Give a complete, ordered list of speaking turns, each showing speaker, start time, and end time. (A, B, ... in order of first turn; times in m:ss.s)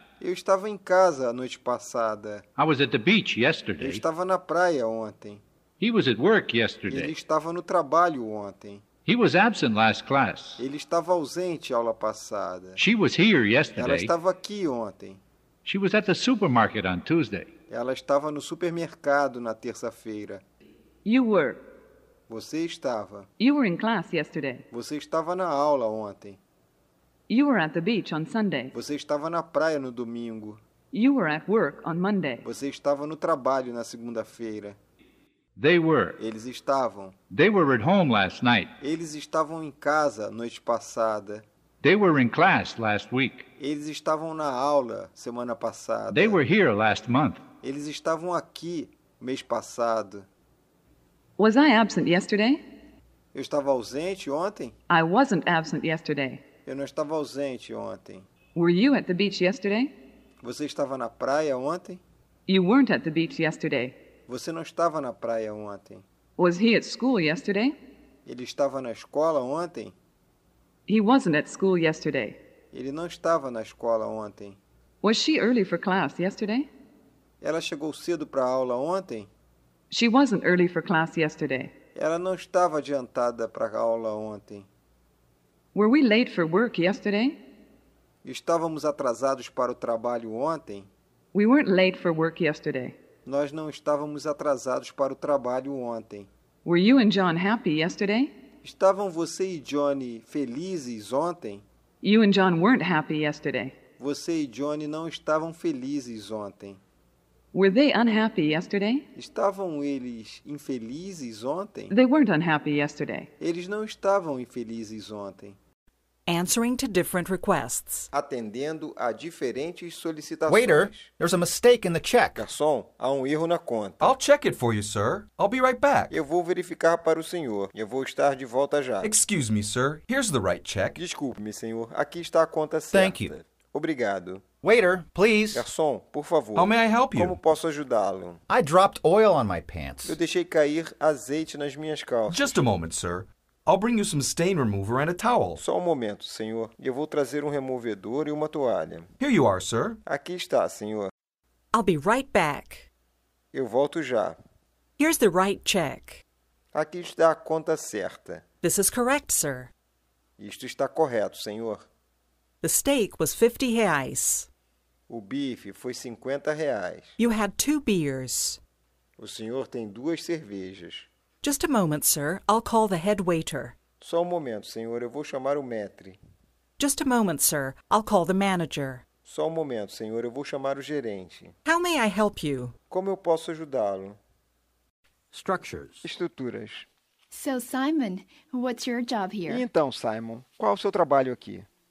0:00.2-0:02.4 A
0:02.6-0:04.0 B
0:03.8-0:05.4 A
0:05.8-0:07.1 B
0:06.9-0:08.8 A
0:09.0-0:10.6 B
0:10.6-0:12.8 A
0:12.8-0:14.1 B
0:13.8-0:15.2 A
0:15.6-0:17.5 B
0:17.7-0:20.4 A
0:21.0-0:21.6 C
0:22.3-0:23.3 A
0:23.4-0:24.6 C
0:24.7-0:26.4 A
0:27.3-0:28.7 C
0:28.7-0:30.6 A
0:30.9-0:32.4 C
0:32.4-0:34.8 A
0:35.6-0:36.2 B
0:36.2-0:37.1 A
0:37.3-0:38.7 B
0:38.8-0:41.4 A
0:41.8-0:43.5 B
0:43.6-0:46.4 A
0:46.1-0:47.4 B
0:47.6-0:50.3 A
0:51.4-0:52.6 C
0:53.3-0:54.8 A
0:54.9-0:56.4 C
0:56.6-0:58.3 A
0:58.5-0:59.9 C
1:00.4-1:02.0 A
1:02.5-1:04.0 C
1:04.3-1:06.0 A
1:06.4-1:07.7 C
1:08.2-1:09.9 A
1:10.9-1:12.4 C
1:12.7-1:14.6 A
1:15.0-1:16.7 C
1:17.4-1:19.3 A
1:19.9-1:21.7 C
1:21.9-1:24.7 A
1:25.7-1:27.4 C
1:28.2-1:30.9 A
1:31.3-1:33.0 C
1:33.2-1:36.3 A
1:36.6-1:38.3 C
1:38.6-1:41.6 A
1:42.0-1:43.8 C
1:44.0-1:46.8 A
1:47.5-1:49.0 C
1:49.1-1:51.9 A
1:51.9-1:53.3 C
1:53.4-1:55.6 A
1:56.3-1:58.1 D
1:58.1-2:01.1 A
2:00.5-2:02.4 E
2:02.3-2:04.1 A
2:04.0-2:06.1 F
2:06.1-2:09.1 A
2:09.0-2:11.0 F
2:10.9-2:14.4 A
2:12.9-2:13.3 E
2:14.6-2:15.6 E
2:15.5-2:18.4 A
2:16.6-2:17.4 F
2:18.5-2:20.2 E
2:20.0-2:22.6 A
2:22.3-2:25.6 F
2:25.6-2:29.1 A
2:29.2-2:30.0 F
2:30.0-2:31.1 A
2:31.7-2:32.9 D
2:33.5-2:34.4 A
2:35.0-2:36.2 D
2:36.7-2:38.4 A
2:38.6-2:39.7 D
2:40.4-2:41.8 A
2:42.6-2:44.5 D
2:45.1-2:47.1 A
2:47.2-2:48.6 D
2:49.2-2:51.1 A
2:51.4-2:53.7 D
2:54.0-2:56.2 A
2:56.8-2:59.0 D
2:59.2-3:01.5 A
3:01.6-3:02.7 D
3:02.9-3:04.2 A
3:05.4-3:06.0 E
3:06.0-3:06.8 A
3:07.3-3:09.6 G
3:09.4-3:11.7 A